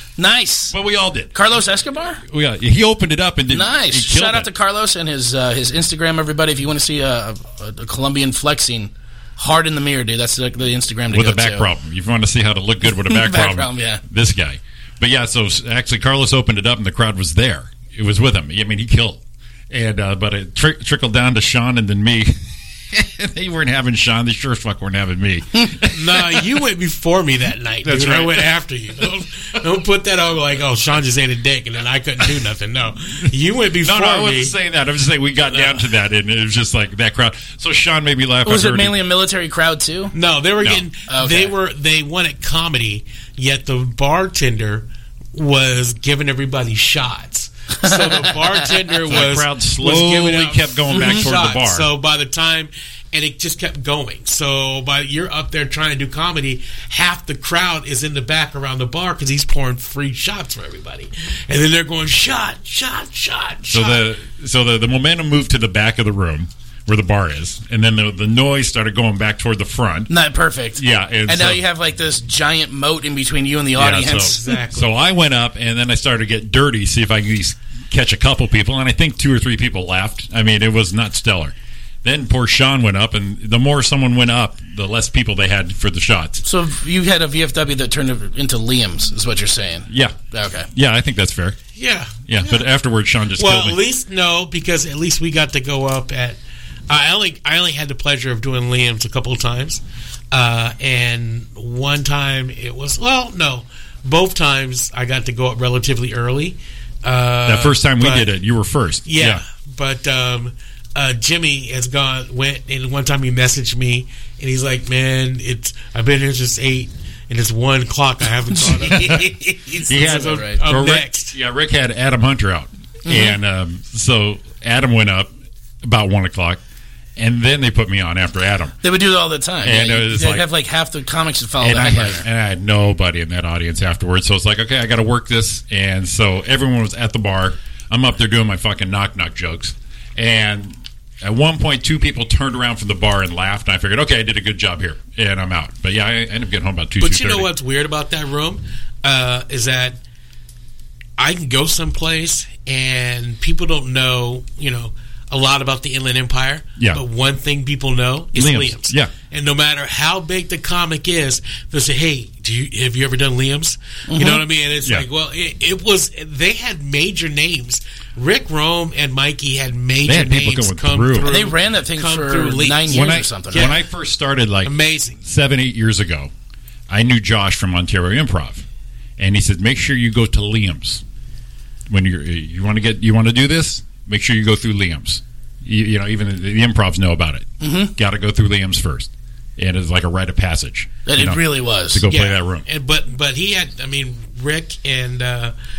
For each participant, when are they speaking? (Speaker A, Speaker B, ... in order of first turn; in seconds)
Speaker A: 0.2-0.7, 1.3-2.2, 3.5-11.7, 13.1-14.0, 38.5-40.1, 41.1-41.5, 47.8-48.3, 50.9-51.2, 70.1-74.4, 86.4-90.7, 118.9-120.6, 123.0-123.4, 128.8-132.2, 164.1-164.4, 171.3-173.7, 187.6-187.9, 191.1-192.1
Speaker B: 0.7-1.3, 2.2-4.5, 11.1-26.5, 27.8-28.5, 33.8-39.0, 49.1-51.9, 63.7-70.1, 70.8-71.6, 73.7-86.4, 89.9-90.2, 90.7-91.6, 92.3-93.8, 107.4-109.4, 118.8-119.3, 119.9-125.3, 125.8-126.6, 127.2-128.8, 129.6-130.5, 131.6-147.5, 158.3-159.1, 170.0-171.3, 172.9-176.3, 176.9-178.6, 179.2-181.0, 181.9-192.7
Speaker C: 25.9-34.5, 35.5-35.8, 40.1-64.1, 74.1-74.9, 91.8-92.6, 93.3-108.3, 109.0-121.3, 147.0-150.0, 151.2-173.8, 174.6-175.2, 192.1-195.5